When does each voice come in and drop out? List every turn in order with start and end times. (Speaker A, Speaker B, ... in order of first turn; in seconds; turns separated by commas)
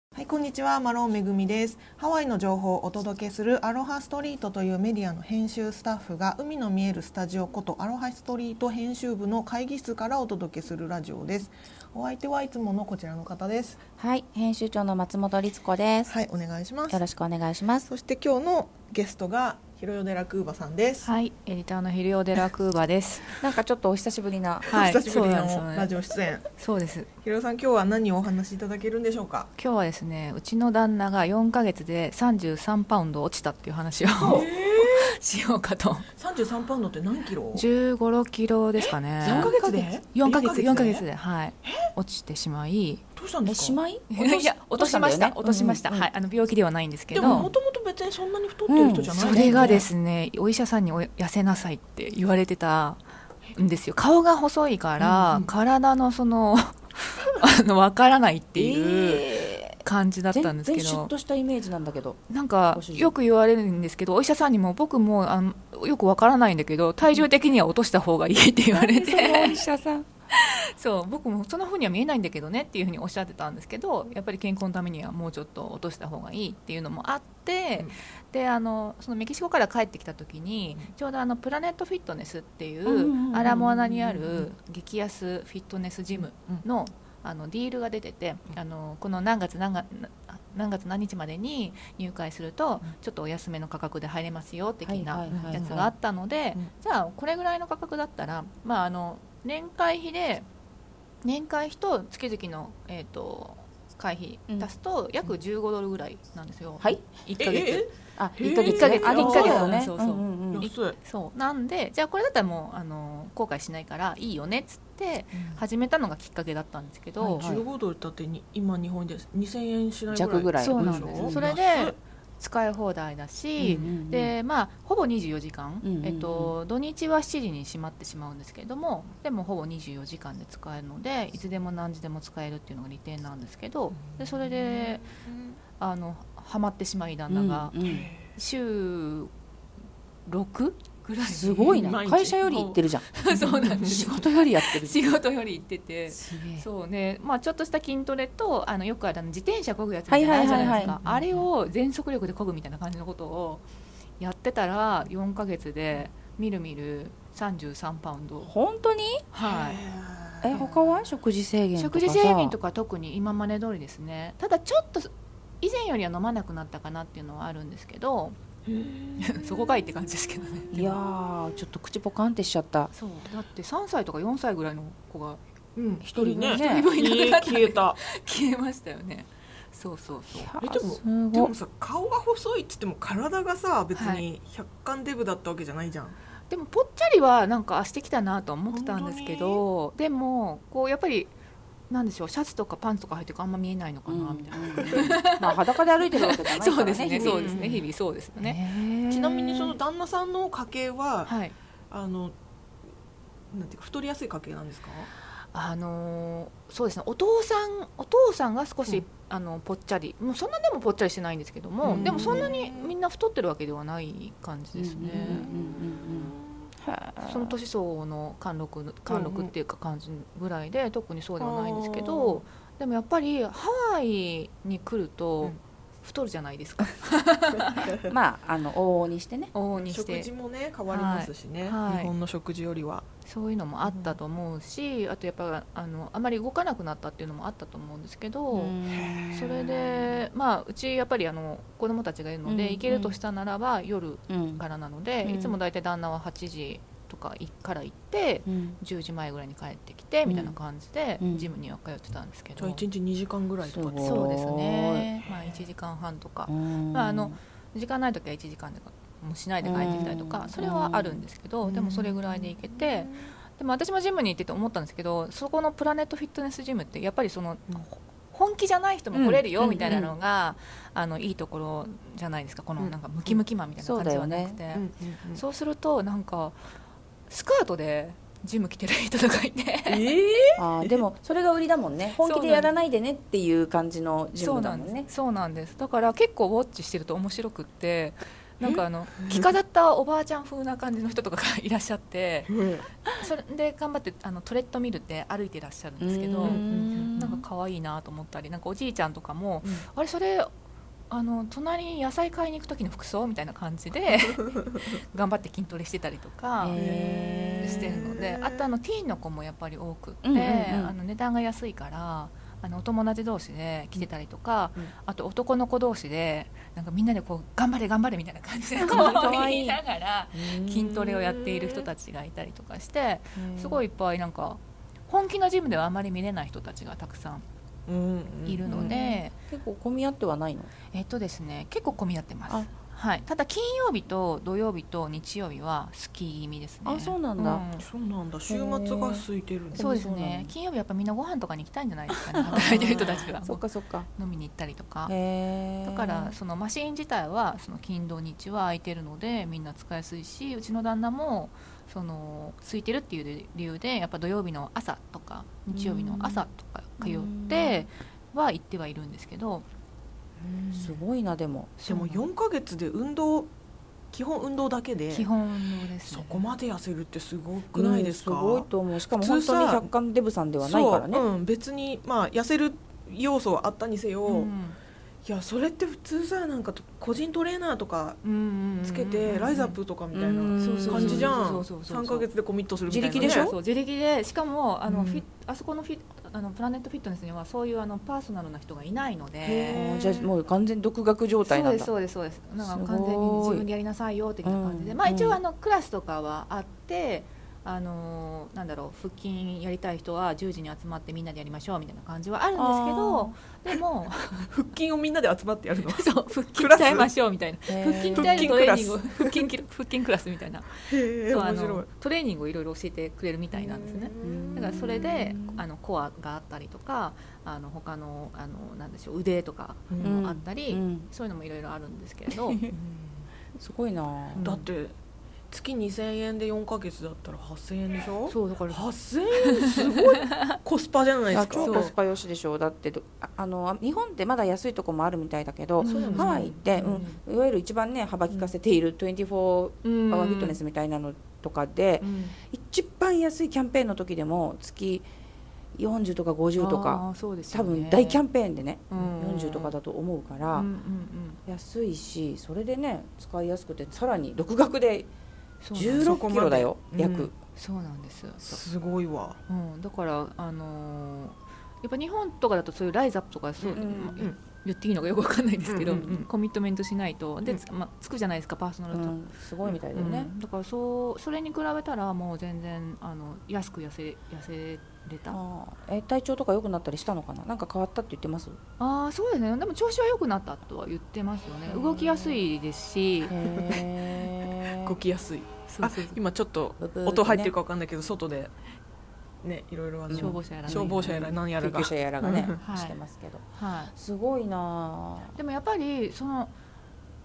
Speaker A: 0.1-13.8, Speaker B: 14.0-16.1, Speaker A: 16.1-17.1, Speaker B: 16.9-17.9, Speaker A: 17.9-21.1, Speaker C: 21.0-23.4, Speaker B: 23.4-24.6, Speaker A: 24.6-26.5, Speaker C: 24.6-25.9, Speaker C: 26.6-27.1, Speaker A: 27.2-29.5, Speaker C: 29.6-36.1, Speaker B: 34.1-34.5, Speaker A: 34.2-35.1, Speaker A: 36.2-37.6, Speaker C: 37.5-43.0, Speaker A: 38.8-41.0, Speaker B: 39.2-39.6, Speaker A: 43.1-43.8, Speaker B: 43.4-46.1, Speaker C: 44.1-47.5, Speaker A: 47.1-49.9, Speaker B: 47.2-47.5, Speaker B: 48.7-49.8, Speaker C: 49.1-53.0, Speaker C: 53.5-61.1, Speaker A: 55.0-55.5, Speaker B: 58.5-59.7, Speaker B: 60.3-63.1, Speaker C: 62.3-69.6, Speaker B: 68.7-70.1, Speaker C: 70.3-100.5, Speaker B: 82.8-84.4, Speaker A: 86.1-86.6, Speaker B: 94.8-95.9, Speaker A: 95.3-95.9, Speaker C: 101.2-107.8, Speaker B: 106.8-107.1, Speaker A: 107.4-109.8, Speaker B: 108.2-110.7, Speaker C: 108.6-117.5, Speaker A: 110.5-111.0, Speaker A: 115.3-115.6, Speaker B: 117.2-117.6, Speaker A: 117.3-122.0, Speaker B: 120.1-121.4, Speaker C: 120.6-135.0, Speaker A: 123.6-123.9, Speaker B: 123.7-124.3, Speaker B: 125.8-126.5, Speaker A: 134.1-135.6, Speaker C: 135.8-137.8, Speaker B: 137.3-138.1, Speaker A: 137.8-138.3, Speaker C: 138.3-139.3, Speaker C: 140.2-141.9, Speaker B: 141.2-143.1, Speaker A: 141.7-144.1, Speaker C: 143.1-153.6, Speaker B: 143.8-145.0, Speaker B: 146.1-146.7, Speaker B: 150.1-151.0, Speaker A: 150.4-151.4, Speaker C: 154.2-158.5, Speaker B: 158.4-159.2, Speaker C: 159.3-159.8, Speaker A: 159.4-160.6, Speaker B: 160.4-162.6, Speaker C: 161.7-168.3, Speaker A: 168.7-170.0, Speaker C: 169.2-170.9, Speaker B: 170.7-172.9, Speaker C: 172.9-175.4, Speaker A: 175.8-178.0, Speaker B: 176.0-176.9, Speaker C: 176.1-180.5, Speaker B: 180.3-181.5, Speaker A: 180.6-186.2, Speaker C: 183.9-184.2, Speaker C: 186.5-191.3, Speaker A: 188.7-189.6, Speaker C: 191.9-199.7, Speaker B: 194.1-197.6, Speaker A: 194.8-195.2, Speaker A: 197.2-197.9, Speaker B: 198.4-199.3, Speaker A: 199.1-201.3, Speaker C: 201.2-201.5, Speaker A: 201.9-202.3, Speaker A: 203.5-205.1, Speaker C: 205.3-215.5, Speaker A: 211.8-212.9, Speaker B: 211.9-212.5, Speaker B: 214.7-217.6, Speaker A: 215.2-216.7, Speaker C: 217.2-227.9, Speaker A: 219.1-219.5, Speaker A: 221.4-222.4, Speaker A: 227.6-227.9, Speaker B: 228.0-229.5, Speaker C: 229.5-230.3, Speaker A: 229.7-233.1, Speaker C: 230.9-232.1, Speaker C: 233.2-238.7, Speaker A: 233.8-234.2, Speaker B: 238.5-240.2, Speaker A: 238.9-239.3, Speaker C: 239.3-252.8, Speaker B: 242.4-243.2, Speaker B: 244.3-244.6, Speaker B: 245.2-245.6, Speaker B: 248.4-248.8, Speaker B: 250.2-250.6, Speaker B: 251.2-251.5, Speaker A: 252.6-254.2, Speaker B: 253.6-255.1, Speaker C: 254.0-276.6, Speaker A: 255.2-255.6, Speaker B: 256.5-257.4, Speaker B: 259.6-261.2, Speaker A: 261.6-263.4, Speaker B: 269.1-270.1, Speaker A: 269.7-270.1, Speaker A: 272.8-273.4, Speaker B: 273.8-274.6, Speaker A: 274.7-275.4, Speaker C: 277.3-280.1, Speaker A: 279.9-281.0, Speaker B: 280.6-285.1, Speaker C: 282.1-282.7, Speaker C: 284.3-292.5, Speaker A: 292.5-292.9, Speaker C: 293.1-300.5, Speaker B: 296.0-297.4, Speaker A: 296.4-297.4, Speaker A: 299.6-299.9, Speaker C: 301.1-306.8, Speaker B: 306.6-308.0, Speaker A: 306.7-308.7, Speaker C: 307.6-327.4, Speaker B: 310.2-310.9, Speaker B: 318.8-319.8, Speaker A: 318.9-319.2, Speaker A: 320.3-321.9, Speaker B: 323.4-323.8, Speaker A: 327.9-328.9, Speaker C: 328.4-329.3, Speaker B: 328.6-330.7, Speaker C: 330.9-337.9, Speaker B: 336.8-337.6, Speaker A: 337.8-339.9, Speaker B: 338.5-340.5, Speaker C: 339.8-345.1, Speaker B: 342.4-344.1, Speaker A: 342.5-343.3, Speaker B: 345.1-346.4, Speaker C: 345.8-359.7, Speaker B: 355.7-356.4, Speaker B: 357.0-357.9, Speaker C: 360.5-361.0, Speaker B: 360.7-361.8, Speaker C: 361.8-362.2, Speaker A: 361.9-363.5, Speaker A: 364.1-365.3, Speaker C: 365.1-366.5, Speaker A: 366.0-369.9, Speaker B: 367.7-371.2, Speaker A: 370.6-374.5, Speaker C: 374.2-374.8, Speaker A: 375.2-378.2, Speaker C: 378.2-379.8, Speaker A: 378.8-383.5, Speaker B: 380.1-381.3, Speaker C: 380.6-382.3, Speaker B: 382.9-383.6, Speaker C: 383.1-389.8, Speaker B: 384.9-385.2, Speaker B: 389.4-391.9, Speaker A: 389.7-390.3, Speaker C: 391.4-404.5, Speaker B: 392.6-393.7, Speaker B: 394.4-395.4, Speaker B: 402.6-403.3, Speaker A: 404.4-407.1, Speaker C: 405.9-422.6, Speaker B: 407.7-408.4, Speaker A: 408.1-409.4, Speaker A: 410.9-411.9, Speaker A: 413.5-414.9, Speaker B: 414.2-415.6, Speaker A: 419.9-420.2, Speaker B: 420.0-421.1, Speaker B: 422.3-422.7, Speaker A: 422.7-423.2, Speaker B: 423.6-424.4, Speaker C: 424.3-424.7, Speaker A: 424.4-424.9, Speaker A: 425.5-431.9, Speaker C: 428.3-428.8, Speaker B: 431.3-445.1, Speaker C: 431.6-431.9, Speaker C: 435.8-437.1, Speaker A: 435.8-437.1, Speaker C: 439.8-440.6, Speaker A: 442.0-442.3, Speaker B: 445.7-450.7, Speaker C: 446.6-448.2, Speaker C: 448.9-449.8, Speaker C: 450.5-451.4, Speaker B: 451.4-455.1, Speaker C: 455.6-456.2, Speaker B: 455.7-457.3, Speaker A: 455.8-457.3, Speaker C: 457.6-458.6, Speaker A: 458.4-459.4, Speaker C: 459.5-469.1, Speaker A: 463.6-464.4, Speaker B: 463.7-464.3, Speaker A: 465.7-466.1, Speaker B: 465.9-466.2, Speaker B: 468.9-470.3, Speaker C: 469.9-475.4, Speaker B: 475.3-478.6, Speaker C: 478.8-483.3, Speaker B: 481.7-482.3, Speaker B: 483.2-485.0, Speaker A: 483.5-483.9, Speaker A: 484.6-488.5, Speaker C: 485.7-486.2, Speaker B: 486.8-487.5, Speaker A: 489.4-492.6, Speaker B: 490.1-495.4, Speaker C: 490.1-491.4, Speaker C: 492.6-493.0, Speaker C: 493.5-493.9, Speaker C: 495.3-496.5